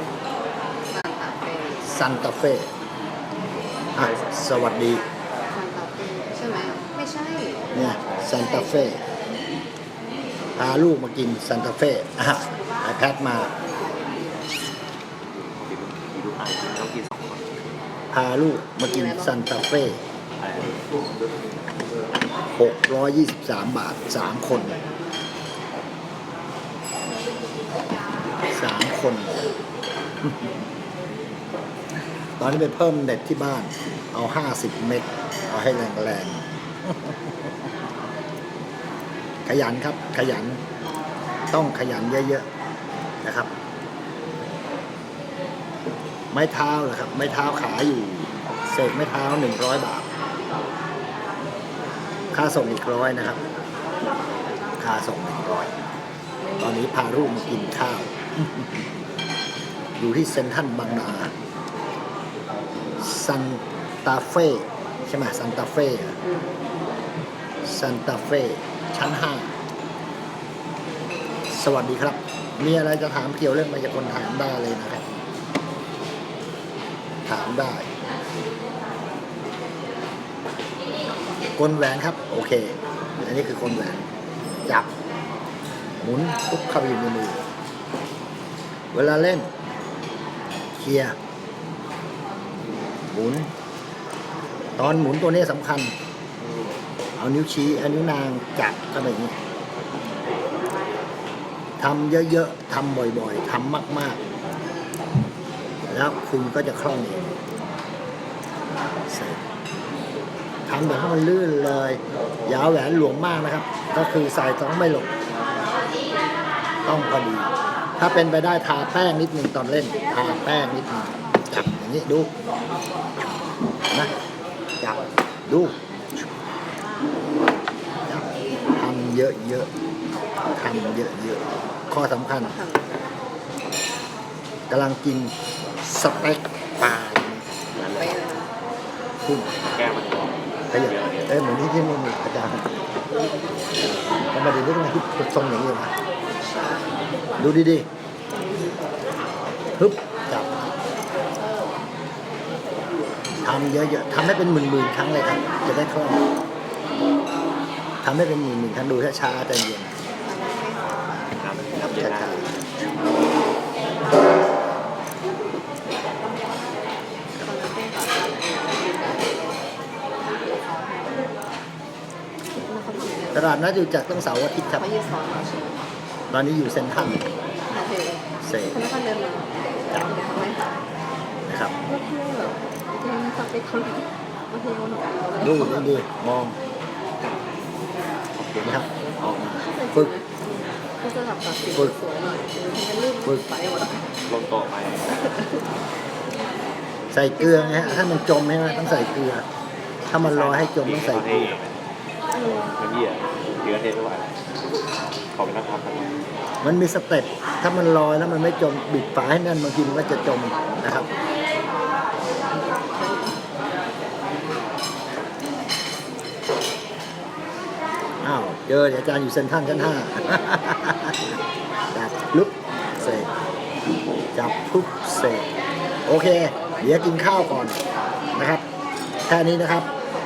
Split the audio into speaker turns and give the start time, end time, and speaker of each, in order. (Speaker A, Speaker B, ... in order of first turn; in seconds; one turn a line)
Speaker A: 0.9-1.9
Speaker B: 1.8-2.7
Speaker B: 3.9-5.0
Speaker A: 5.5-8.8
Speaker B: 7.7-9.0
Speaker B: 10.6-13.5
Speaker A: 13.8-14.1
Speaker C: 15.2-17.8
Speaker B: 18.1-20.0
Speaker A: 18.9-19.4
Speaker C: 20.4-20.9
Speaker B: 22.5-24.8
Speaker A: 24.5-24.9
Speaker B: 28.5-29.5
Speaker B: 30.2-30.5
Speaker B: 32.4-37.3
Speaker B: 39.5-40.6
Speaker B: 41.5-42.5
Speaker B: 43.2-43.5
Speaker B: 46.3-50.1
Speaker B: 52.3-53.4
Speaker B: 54.8-55.7
Speaker B: 56.6-58.8
Speaker B: 60.0-61.3
Speaker B: 63.0-66.2
Speaker B: 67.6-69.5
Speaker B: 71.5-75.0
Speaker B: 77.3-77.9
Speaker B: 81.5-84.0
Speaker B: 86.0-87.4
Speaker B: 88.9-89.5
Speaker B: 90.7-91.1
Speaker B: 93.1-93.5
Speaker B: 94.8-95.9
Speaker B: 97.2-99.3
Speaker B: 101.8-104.2
Speaker B: 105.9-107.2
Speaker B: 109.0-109.4
Speaker B: 110.7-115.1
Speaker B: 116.8-122.3
Speaker B: 124.8-125.8
Speaker B: 128.1-129.7
Speaker B: 130.5-132.5
Speaker A: 132.3-133.1
Speaker B: 134.7-137.4
Speaker C: 136.1-136.9
Speaker C: 137.7-138.2
Speaker A: 137.9-138.5
Speaker B: 139.2-139.6
Speaker C: 139.7-141.4
Speaker B: 140.7-142.8
Speaker B: 144.3-145.9
Speaker B: 147.4-147.8
Speaker A: 148.3-148.8
Speaker B: 149.8-150.5
Speaker B: 153.4-156.2
Speaker B: 158.0-160.0
Speaker A: 160.2-162.7
Speaker C: 161.4-162.5
Speaker B: 161.8-162.4
Speaker A: 167.3-169.6
Speaker A: 170.2-171.3
Speaker A: 172.6-173.6
Speaker B: 173.3-174.9
Speaker A: 174.7-175.8
Speaker B: 176.3-177.3
Speaker A: 177.7-180.7
Speaker B: 178.4-178.8
Speaker B: 181.5-181.8
Speaker A: 181.8-185.9
Speaker B: 185.4-186.6
Speaker C: 188.3-188.8
Speaker B: 188.6-190.1
Speaker A: 189.5-194.1
Speaker C: 194.3-195.3
Speaker A: 195.2-195.6
Speaker B: 197.1-199.4
Speaker A: 197.4-198.3
Speaker B: 200.1-201.6
Speaker C: 200.1-201.8
Speaker A: 202.3-202.7
Speaker C: 202.6-204.3
Speaker C: 205.3-206.2
Speaker B: 206.6-211.1
Speaker A: 209.9-211.3
Speaker A: 212.4-213.4
Speaker B: 218.2-221.2
Speaker A: 219.9-220.5
Speaker B: 221.9-223.3
Speaker B: 224.3-225.5
Speaker B: 226.1-227.8
Speaker B: 228.3-228.6
Speaker B: 229.3-229.9